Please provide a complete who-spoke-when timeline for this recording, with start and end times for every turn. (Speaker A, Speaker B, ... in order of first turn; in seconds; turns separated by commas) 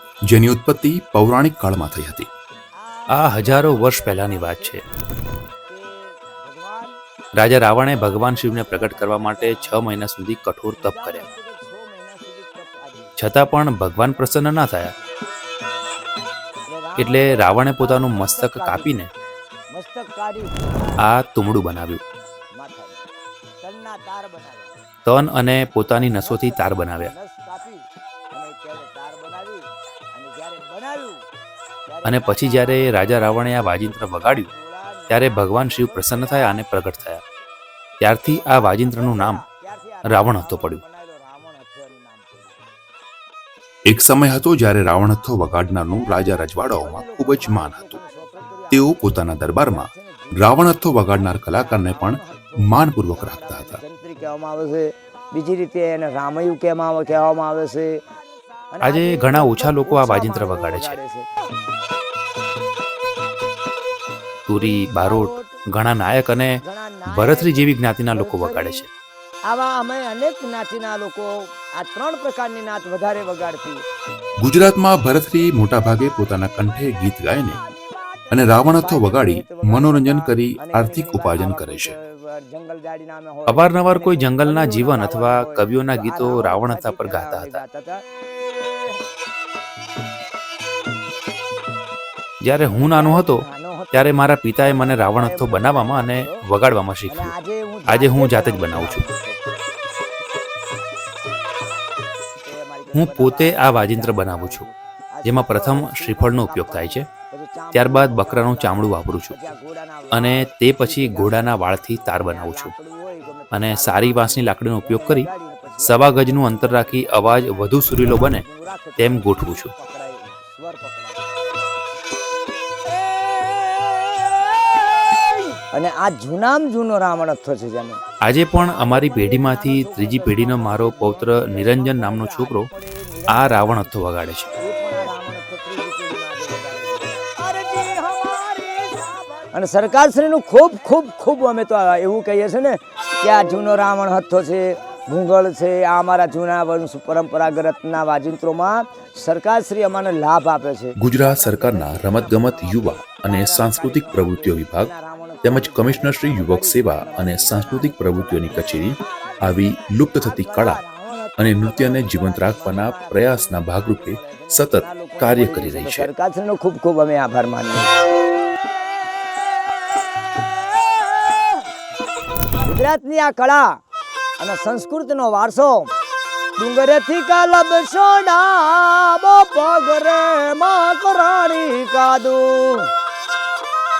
Speaker A: 0.2-2.3, Speaker B: 2.8-4.8, Speaker C: 3.1-4.8, Speaker B: 5.7-7.0, Speaker C: 7.4-11.2, Speaker B: 7.7-10.0, Speaker B: 10.8-13.2, Speaker C: 13.2-14.9, Speaker B: 13.9-15.1, Speaker B: 16.7-19.0, Speaker C: 17.0-19.1, Speaker B: 19.7-21.0, Speaker C: 21.0-22.0, Speaker B: 22.5-23.0, Speaker B: 23.6-24.8, Speaker C: 25.1-27.1, Speaker B: 25.8-31.2, Speaker B: 31.9-36.6, Speaker C: 32.0-34.5, Speaker C: 35.1-37.2, Speaker C: 38.0-39.4, Speaker B: 38.2-42.6, Speaker C: 40.0-40.8, Speaker A: 43.8-47.8, Speaker B: 46.5-61.3, Speaker A: 48.7-53.8, Speaker C: 58.8-61.0, Speaker C: 64.5-68.9, Speaker B: 64.5-65.6, Speaker B: 66.6-68.9, Speaker B: 69.5-73.8, Speaker A: 74.4-77.6, Speaker B: 77.8-89.0, Speaker A: 78.3-82.0, Speaker C: 83.5-87.6, Speaker C: 92.4-97.3, Speaker B: 92.9-96.5, Speaker B: 97.1-99.4, Speaker C: 97.9-99.0, Speaker B: 102.4-121.2, Speaker C: 102.9-104.6, Speaker C: 105.2-107.1, Speaker C: 107.7-109.4, Speaker C: 110.1-112.7, Speaker C: 113.5-115.3, Speaker C: 115.8-118.4, Speaker C: 119.0-119.7, Speaker B: 123.1-134.0, Speaker C: 128.2-132.7, Speaker C: 133.3-134.5, Speaker B: 134.5-168.0, Speaker A: 151.0-154.9, Speaker A: 155.4-160.8, Speaker C: 157.4-158.4, Speaker A: 161.4-164.8, Speaker C: 165.2-166.0, Speaker A: 165.4-166.1, Speaker B: 169.9-171.6, Speaker B: 172.6-173.8, Speaker B: 174.4-175.9, Speaker B: 176.6-182.9